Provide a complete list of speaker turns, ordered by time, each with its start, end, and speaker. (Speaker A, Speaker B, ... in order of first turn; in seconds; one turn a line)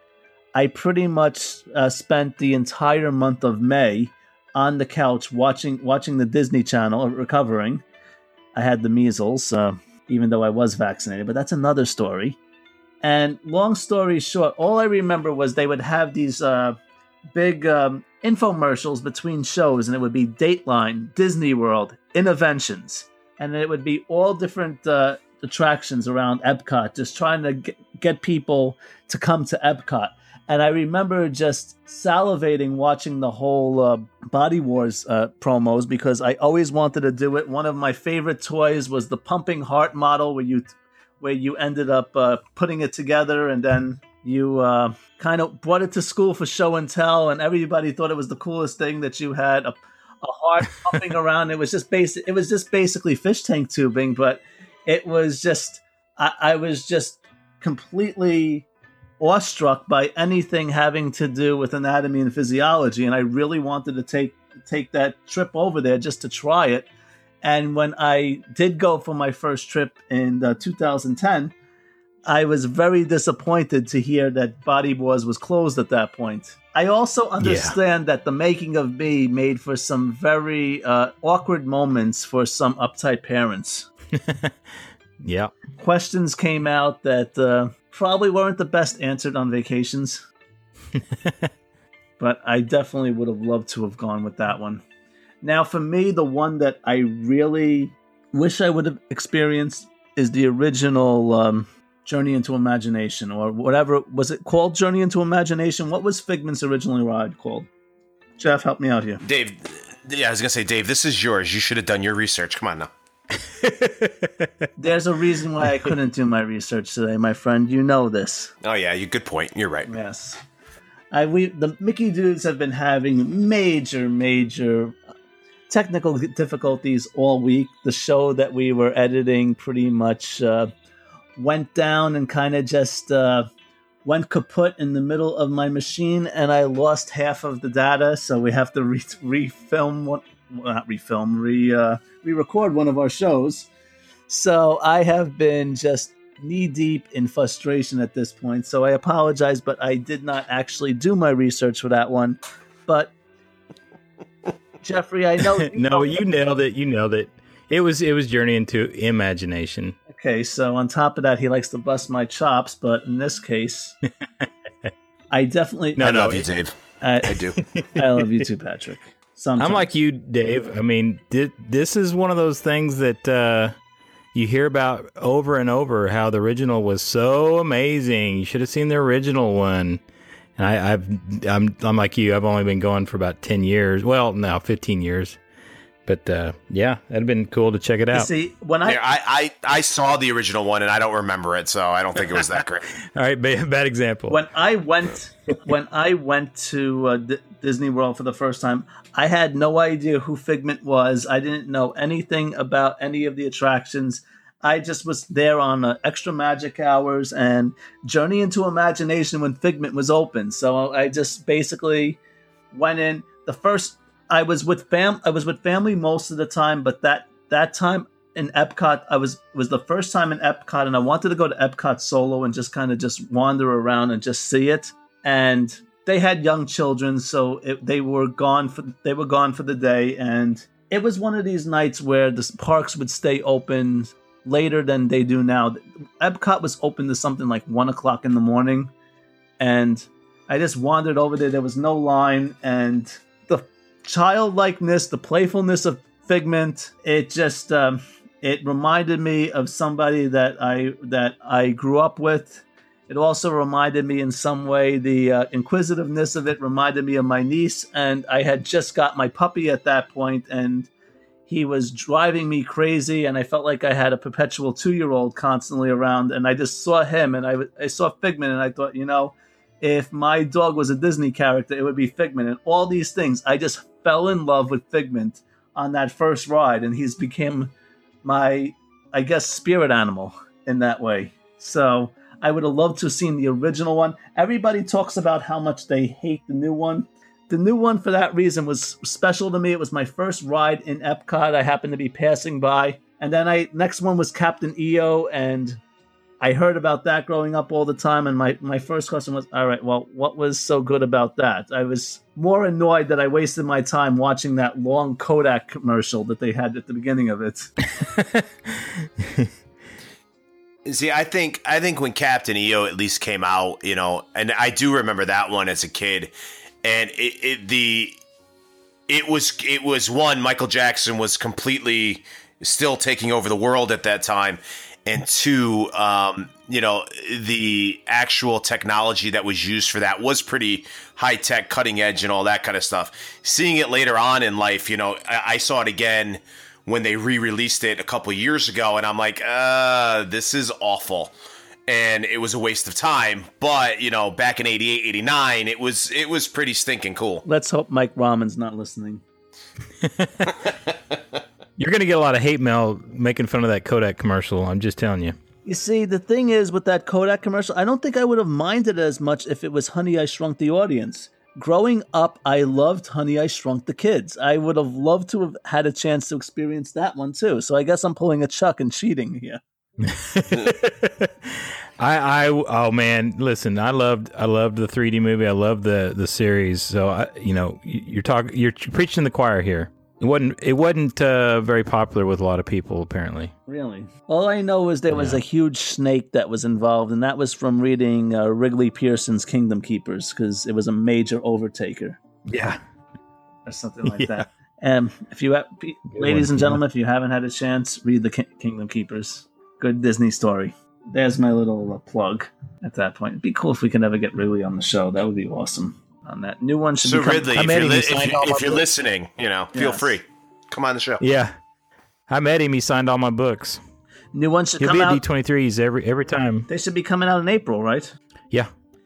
Speaker A: 0.5-7.8
Speaker A: 8.5-12.4
Speaker A: 13.0-16.8
Speaker A: 17.3-58.7
Speaker A: 59.2-66.9
Speaker A: 67.4-71.5
Speaker A: 72.2-83.9
Speaker B: 77.4-77.7
Speaker B: 84.2-84.5
Speaker B: 85.2-85.5
Speaker A: 85.8-90.2
Speaker A: 92.2-94.8
Speaker A: 95.4-107.7
Speaker A: 108.4-109.2
Speaker C: 109.2-112.9
Speaker B: 113.6-114.5
Speaker A: 114.8-118.5
Speaker C: 118.6-119.9
Speaker A: 119.9-120.4
Speaker A: 121.1-125.0
Speaker A: 125.7-130.7
Speaker A: 131.4-133.5
Speaker A: 134.0-143.7
Speaker A: 144.3-153.1
Speaker A: 154.8-156.2
Speaker B: 155.7-159.9
Speaker A: 160.1-164.0
Speaker A: 165.3-166.1
Speaker B: 166.0-166.5
Speaker C: 166.0-167.6
Speaker A: 167.0-167.4
Speaker A: 167.9-169.8
Speaker B: 169.6-173.7
Speaker B: 174.3-180.0
Speaker B: 180.6-185.4
Speaker B: 186.1-188.3
Speaker A: 188.1-189.0
Speaker C: 188.8-192.9
Speaker B: 193.1-194.4
Speaker A: 194.3-212.2
Speaker A: 212.7-238.9
Speaker A: 239.6-260.9
Speaker A: 261.5-277.7
Speaker A: 278.2-295.8
Speaker A: 296.4-307.7
Speaker B: 308.0-308.4
Speaker B: 309.2-309.5
Speaker C: 310.8-318.2
Speaker C: 319.1-341.3
Speaker C: 341.9-347.4
Speaker A: 347.4-349.2
Speaker B: 350.0-350.5
Speaker B: 351.8-355.3
Speaker A: 355.6-369.6
Speaker B: 370.0-383.5
Speaker A: 383.7-392.2
Speaker B: 385.1-385.4
Speaker B: 392.5-392.8
Speaker A: 393.6-408.8
Speaker B: 394.1-394.4
Speaker B: 396.1-396.8
Speaker C: 407.0-411.2
Speaker B: 407.6-408.6
Speaker A: 409.7-410.1
Speaker B: 411.2-411.5
Speaker B: 412.3-413.8
Speaker A: 414.3-415.2
Speaker B: 414.8-416.7
Speaker A: 416.7-418.1